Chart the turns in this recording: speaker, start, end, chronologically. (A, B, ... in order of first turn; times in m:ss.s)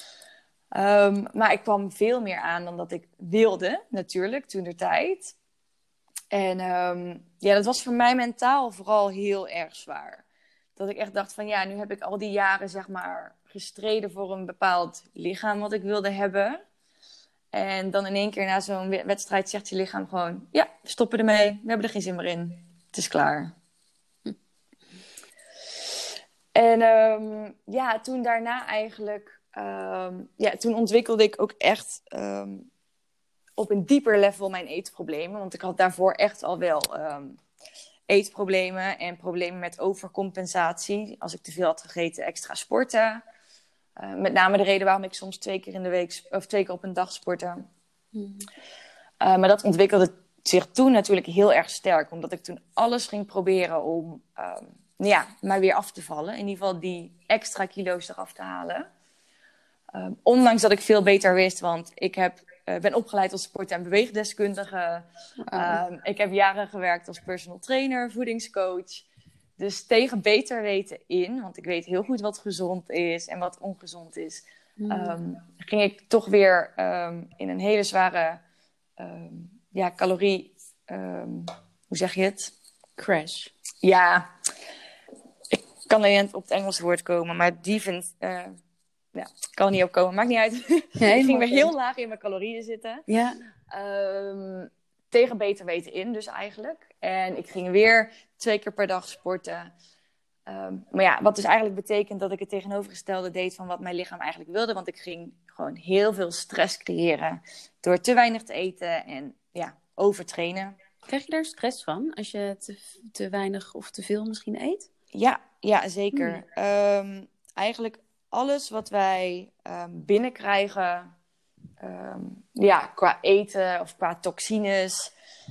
0:00.7-0:05.3 A
0:06.3-0:10.2 A
0:10.8-0:16.6 A
0:17.5-0:23.5 A
0:26.5-0:32.7 A
0:33.6-0:37.4 A
0:38.1-0:43.2 A
0:44.0-0:47.7 A
0:48.1-0:48.5 B
0:49.2-0:58.9 A
0:59.9-1:09.0 A
1:05.4-1:05.8 B
1:09.6-1:18.4 A
1:14.8-1:15.2 B
1:19.0-1:22.5 A
1:23.0-1:23.5 B
1:23.8-1:24.3 A
1:25.5-1:28.6 A
1:29.1-1:33.0 A
1:31.0-1:31.7 B
1:33.1-1:33.4 B
1:33.7-1:39.7 A
1:40.5-1:50.8 A
1:51.1-1:54.9 B
1:55.1-2:01.1 A
2:01.8-2:05.1 A